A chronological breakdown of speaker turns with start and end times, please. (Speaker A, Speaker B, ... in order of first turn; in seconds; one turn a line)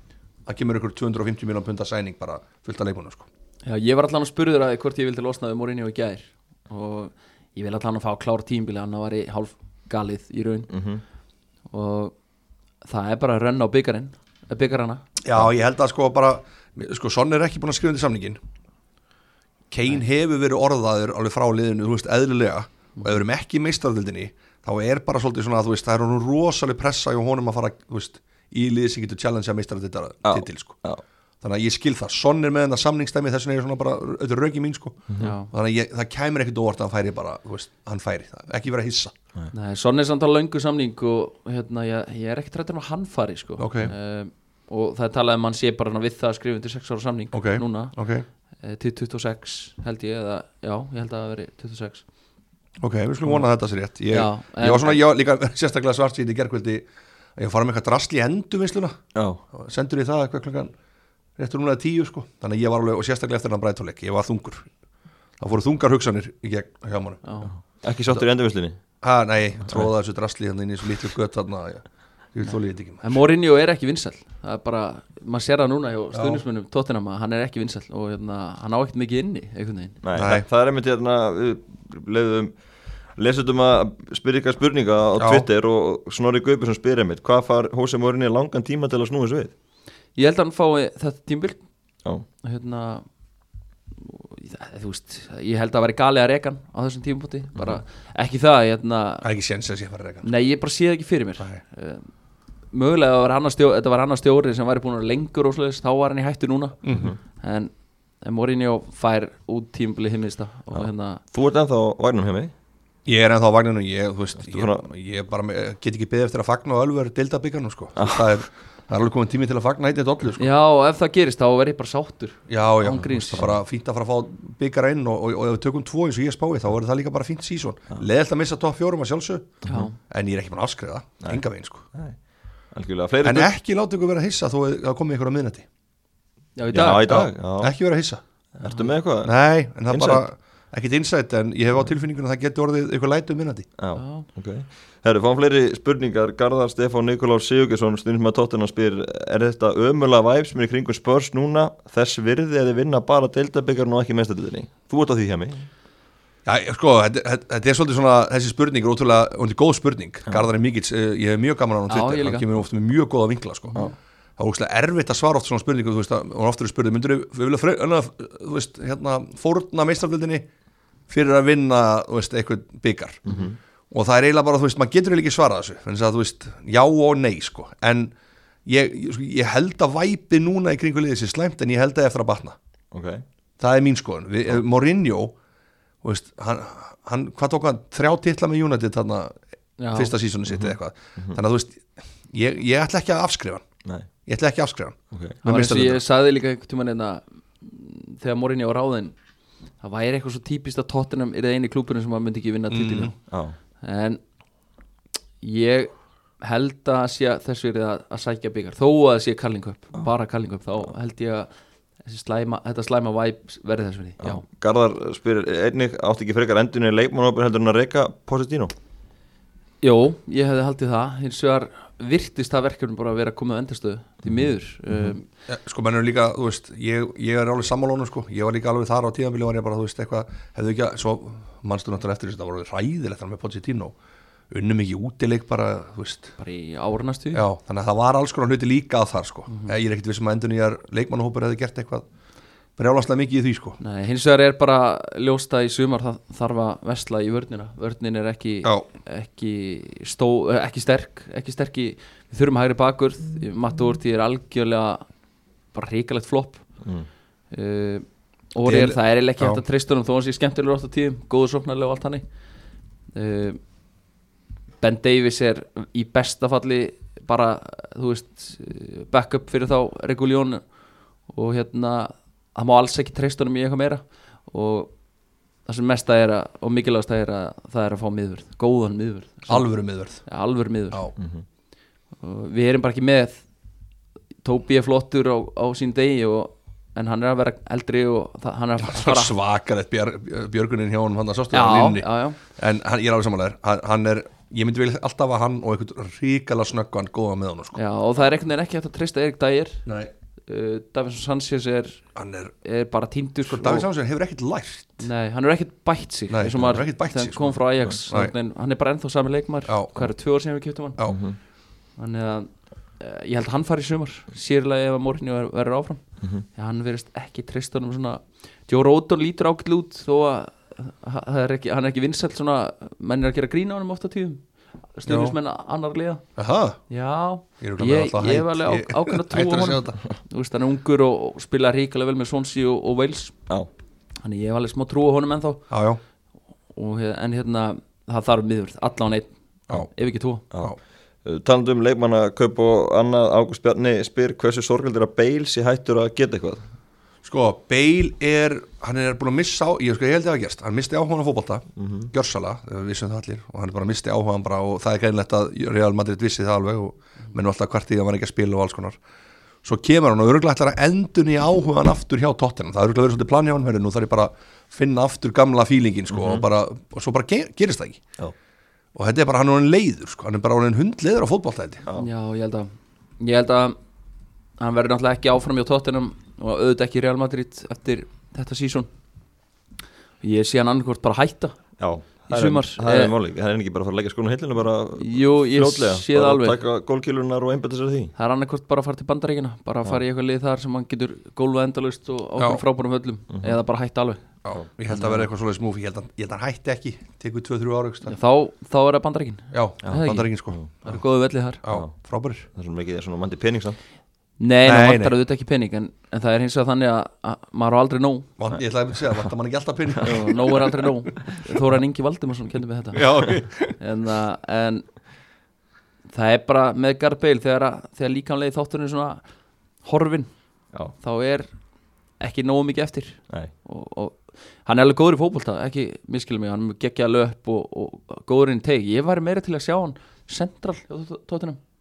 Speaker A: 0.5-3.3
Speaker B: 3.6-10.7
Speaker C: 10.7-11.0
Speaker B: 11.7-12.1
Speaker B: 12.8-15.0
Speaker A: 15.2-18.4
Speaker A: 19.7-30.8
Speaker C: 30.2-31.0
Speaker A: 31.4-39.1
Speaker C: 35.1-35.3
Speaker B: 35.2-35.5
Speaker B: 39.5-48.0
Speaker A: 43.6-43.9
Speaker A: 47.3-48.2
Speaker B: 48.6-52.0
Speaker A: 52.8-59.0
Speaker B: 54.1-55.0
Speaker C: 59.1-59.4
Speaker A: 59.5-60.7
Speaker A: 61.4-64.7
Speaker A: 65.4-67.3
Speaker B: 67.2-67.5
Speaker C: 67.8-68.8
Speaker A: 69.0-73.2
Speaker C: 69.6-69.9
Speaker B: 73.0-80.0
Speaker A: 76.1-76.4
Speaker C: 80.0-82.5
Speaker A: 80.1-80.5
Speaker C: 83.2-89.5
Speaker A: 85.2-85.5
Speaker B: 90.2-91.6
Speaker B: 92.4-93.0
Speaker B: 94.0-99.2
Speaker A: 99.2-100.3
Speaker B: 100.2-102.1
Speaker B: 102.7-106.8
Speaker A: 106.8-107.1
Speaker B: 107.3-107.7
Speaker B: 108.2-111.2
Speaker C: 110.7-112.5
Speaker A: 113.0-120.5
Speaker C: 114.4-114.8
Speaker C: 118.0-118.3
Speaker B: 120.4-123.5
Speaker A: 122.5-131.9
Speaker C: 129.6-129.9
Speaker B: 129.6-129.9
Speaker C: 132.7-133.5
Speaker A: 133.2-135.7
Speaker B: 136.6-137.0
Speaker C: 136.7-137.7
Speaker A: 136.8-138.2
Speaker B: 138.6-138.9
Speaker C: 138.6-139.3
Speaker A: 139.2-143.7
Speaker C: 139.9-140.2
Speaker C: 143.8-155.7
Speaker B: 143.9-144.3
Speaker A: 156.4-163.8
Speaker B: 161.9-162.5
Speaker A: 164.4-170.5
Speaker A: 171.1-173.3
Speaker C: 173.3-173.6
Speaker A: 173.9-178.1
Speaker A: 178.7-182.6
Speaker C: 182.9-183.2
Speaker A: 183.6-185.3
Speaker A: 186.0-189.4
Speaker B: 189.8-190.1
Speaker A: 189.9-193.7
Speaker C: 190.5-191.4
Speaker A: 194.2-196.0
Speaker C: 195.1-195.4
Speaker B: 195.4-199.1
Speaker B: 199.8-203.1
Speaker A: 202.7-203.1
Speaker C: 203.0-203.6
Speaker B: 203.8-204.2
Speaker B: 205.4-211.5
Speaker B: 212.0-214.4
Speaker C: 214.2-218.7
Speaker B: 219.8-225.2
Speaker C: 224.2-225.1
Speaker A: 225.5-233.9
Speaker A: 234.5-236.3
Speaker B: 236.4-237.4
Speaker A: 237.3-242.1
Speaker B: 239.5-239.8
Speaker A: 242.8-243.8
Speaker B: 243.8-255.0
Speaker B: 255.7-256.6
Speaker C: 256.8-257.1
Speaker B: 257.5-262.2
Speaker A: 258.6-259.6
Speaker B: 263.1-263.6
Speaker B: 264.8-270.6
Speaker B: 271.3-274.9
Speaker B: 275.6-281.1
Speaker A: 279.5-280.2
Speaker C: 281.2-281.4
Speaker B: 282.2-283.4
Speaker B: 284.4-289.3
Speaker A: 288.8-297.8
Speaker B: 291.5-292.4
Speaker B: 297.7-299.8
Speaker A: 299.9-300.1
Speaker B: 300.5-302.0
Speaker A: 302.1-302.5
Speaker B: 302.6-303.9
Speaker A: 303.4-305.1
Speaker B: 305.0-311.0
Speaker A: 306.3-308.3
Speaker A: 309.7-310.1
Speaker C: 311.1-311.4
Speaker B: 312.0-324.4
Speaker B: 324.9-326.2
Speaker A: 325.1-325.4
Speaker A: 326.4-326.8
Speaker B: 326.9-333.3
Speaker A: 327.6-330.0
Speaker B: 334.2-335.7
Speaker A: 335.7-336.0
Speaker B: 336.7-340.4
Speaker C: 340.5-346.6
Speaker A: 347.2-359.0
Speaker C: 351.8-352.1
Speaker A: 359.6-368.0
Speaker C: 366.1-366.4
Speaker A: 368.9-371.8
Speaker B: 371.9-373.8
Speaker B: 374.6-378.9
Speaker B: 380.2-381.6
Speaker C: 381.8-388.1
Speaker B: 382.3-383.1
Speaker B: 385.0-386.6
Speaker B: 388.1-394.2
Speaker A: 392.4-392.6
Speaker C: 393.3-393.6
Speaker A: 394.4-398.1
Speaker B: 394.9-395.3
Speaker B: 398.1-401.6
Speaker A: 399.5-401.0
Speaker C: 399.9-400.7
Speaker A: 401.6-402.4
Speaker C: 402.5-403.8
Speaker B: 404.4-408.3
Speaker A: 404.6-405.1
Speaker A: 408.4-410.9
Speaker B: 410.0-414.8
Speaker A: 412.9-413.7
Speaker B: 416.1-419.2
Speaker B: 419.8-420.3
Speaker B: 421.0-421.5
Speaker B: 422.2-431.6